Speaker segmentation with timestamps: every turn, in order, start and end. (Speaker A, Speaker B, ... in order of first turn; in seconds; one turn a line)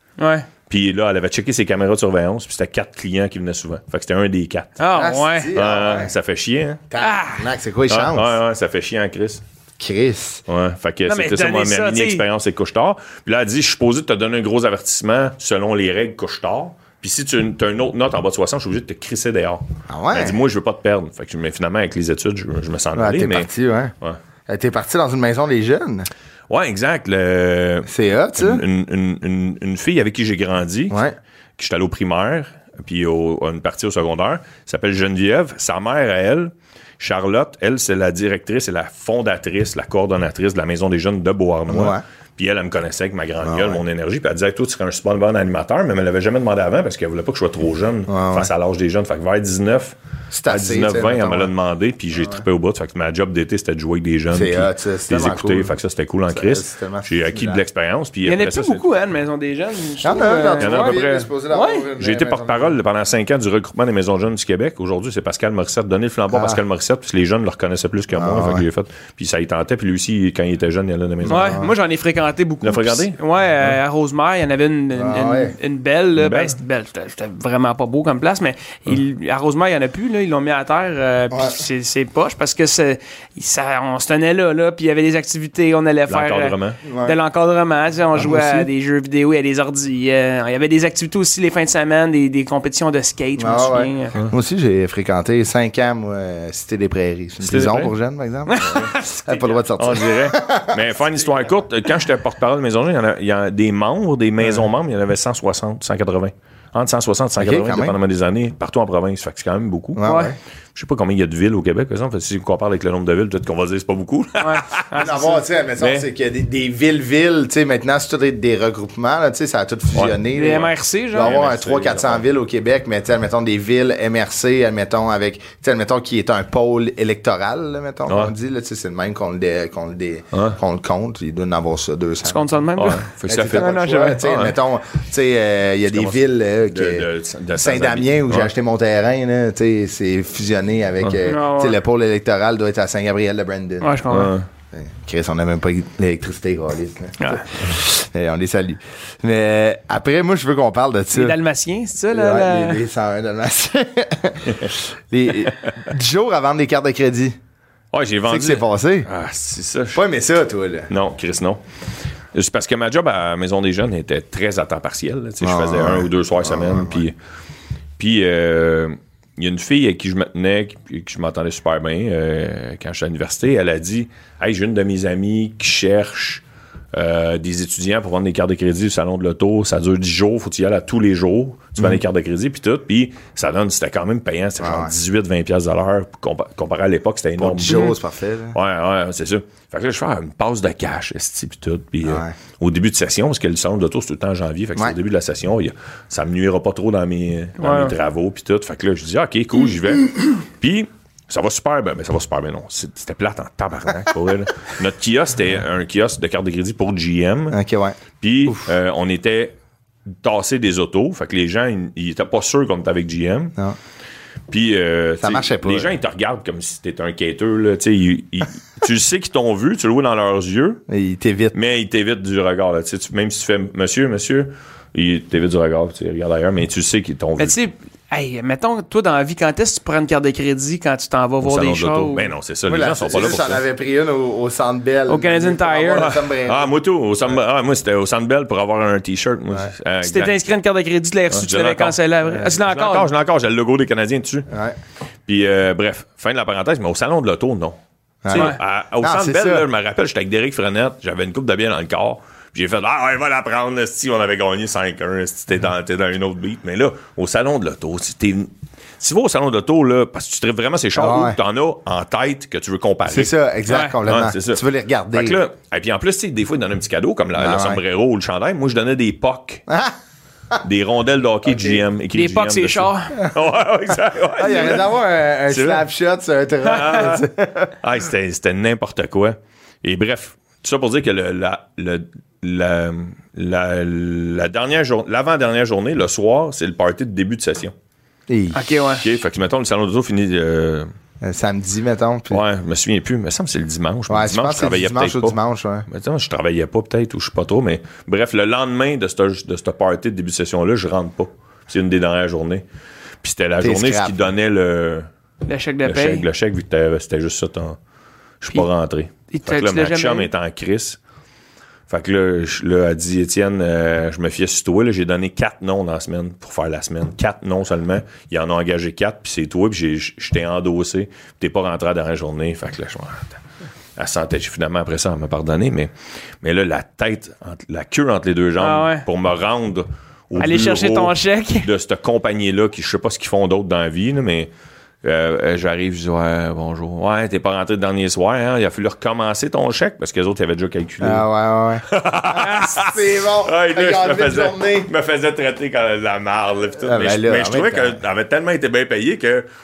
Speaker A: 0.2-0.5
Speaker B: 0.7-4.8
Speaker A: 4.8-5.5
Speaker C: 4.9-6.1
Speaker B: 5.5-6.8
Speaker C: 6.9-8.4
Speaker A: 7.0-7.5
Speaker B: 7.9-9.4
Speaker C: 9.8-10.4
Speaker B: 10.5-23.5
Speaker A: 11.1-12.2
Speaker C: 19.9-20.4
Speaker C: 22.9-23.9
Speaker C: 24.5-26.1
Speaker B: 26.5-31.0
Speaker C: 27.9-28.6
Speaker C: 30.9-31.2
Speaker B: 31.6-49.9
Speaker C: 41.7-42.0
Speaker C: 43.4-43.8
Speaker C: 48.1-48.5
Speaker C: 50.3-51.5
Speaker B: 50.5-58.8
Speaker C: 52.1-52.4
Speaker C: 54.3-55.8
Speaker C: 56.3-57.6
Speaker A: 58.2-61.9
Speaker C: 60.0-62.8
Speaker B: 60.6-61.3
Speaker B: 62.0-71.6
Speaker C: 66.3-66.6
Speaker C: 68.1-68.7
Speaker A: 71.2-94.1
Speaker C: 71.2-71.7
Speaker B: 72.6-73.8
Speaker C: 74.9-75.5
Speaker B: 76.2-76.6
Speaker C: 81.3-81.6
Speaker B: 86.1-86.8
Speaker C: 86.8-87.2
Speaker B: 88.2-88.6
Speaker C: 88.2-88.6
Speaker C: 93.3-100.8
Speaker B: 97.4-97.9
Speaker A: 98.5-99.6
Speaker B: 98.6-98.9
Speaker B: 99.8-110.0
Speaker C: 107.4-108.0
Speaker C: 109.9-110.4
Speaker A: 110.0-110.3
Speaker B: 110.7-114.9
Speaker A: 114.4-115.4
Speaker C: 114.9-132.5
Speaker B: 115.8-116.1
Speaker B: 119.9-122.2
Speaker A: 120.3-121.4
Speaker B: 128.1-128.3
Speaker B: 130.3-130.6
Speaker A: 132.2-134.2
Speaker B: 132.8-134.5
Speaker C: 133.2-137.1
Speaker B: 135.9-138.5
Speaker C: 137.6-143.9
Speaker A: 141.2-141.8
Speaker A: 143.8-144.3
Speaker B: 144.1-144.5
Speaker C: 144.7-151.4
Speaker A: 147.2-147.5
Speaker A: 151.1-152.8
Speaker C: 152.1-157.4
Speaker B: 157.9-160.0
Speaker C: 158.3-159.1
Speaker C: 159.9-160.9
Speaker B: 160.9-161.6
Speaker B: 162.3-167.1
Speaker C: 165.4-167.0
Speaker B: 168.0-176.4
Speaker B: 176.9-188.0
Speaker C: 184.6-184.9
Speaker C: 187.4-188.6
Speaker A: 187.7-187.9
Speaker B: 188.5-207.6
Speaker C: 192.0-192.3
Speaker A: 197.6-197.9
Speaker C: 207.5-208.0
Speaker B: 208.2-209.5
Speaker B: 210.2-213.5
Speaker B: 214.5-220.8
Speaker C: 215.2-215.9
Speaker C: 220.9-221.5
Speaker B: 221.5-227.6
Speaker A: 227.4-232.3
Speaker B: 231.4-233.6
Speaker C: 232.7-236.7
Speaker A: 235.1-236.1
Speaker B: 235.9-240.3
Speaker A: 240.0-243.1
Speaker B: 241.3-244.5
Speaker C: 244.5-244.8
Speaker B: 245.3-263.4
Speaker C: 248.2-249.6
Speaker A: 248.3-248.6
Speaker C: 260.9-261.4
Speaker C: 263.1-265.4
Speaker A: 263.7-263.9
Speaker B: 264.0-269.6
Speaker C: 267.4-267.8
Speaker C: 269.7-269.9
Speaker B: 270.6-274.9
Speaker C: 271.4-271.8
Speaker A: 272.1-273.2
Speaker C: 274.4-277.7
Speaker B: 275.5-275.8
Speaker B: 276.6-277.3
Speaker B: 277.8-287.7
Speaker C: 288.3-288.6
Speaker A: 288.5-289.1
Speaker B: 289.0-290.9
Speaker C: 291.2-292.4
Speaker B: 292.3-302.6
Speaker C: 294.1-295.9
Speaker B: 303.2-305.1
Speaker C: 303.6-304.2
Speaker A: 305.4-306.2
Speaker B: 305.8-307.8
Speaker B: 308.4-311.0
Speaker A: 309.3-310.3
Speaker B: 311.9-323.4
Speaker B: 324.0-325.9
Speaker B: 326.4-334.5
Speaker A: 328.6-329.1
Speaker A: 330.4-331.7
Speaker B: 335.0-341.2
Speaker C: 341.0-344.9
Speaker B: 341.9-349.4
Speaker A: 342.4-342.8
Speaker C: 346.8-348.0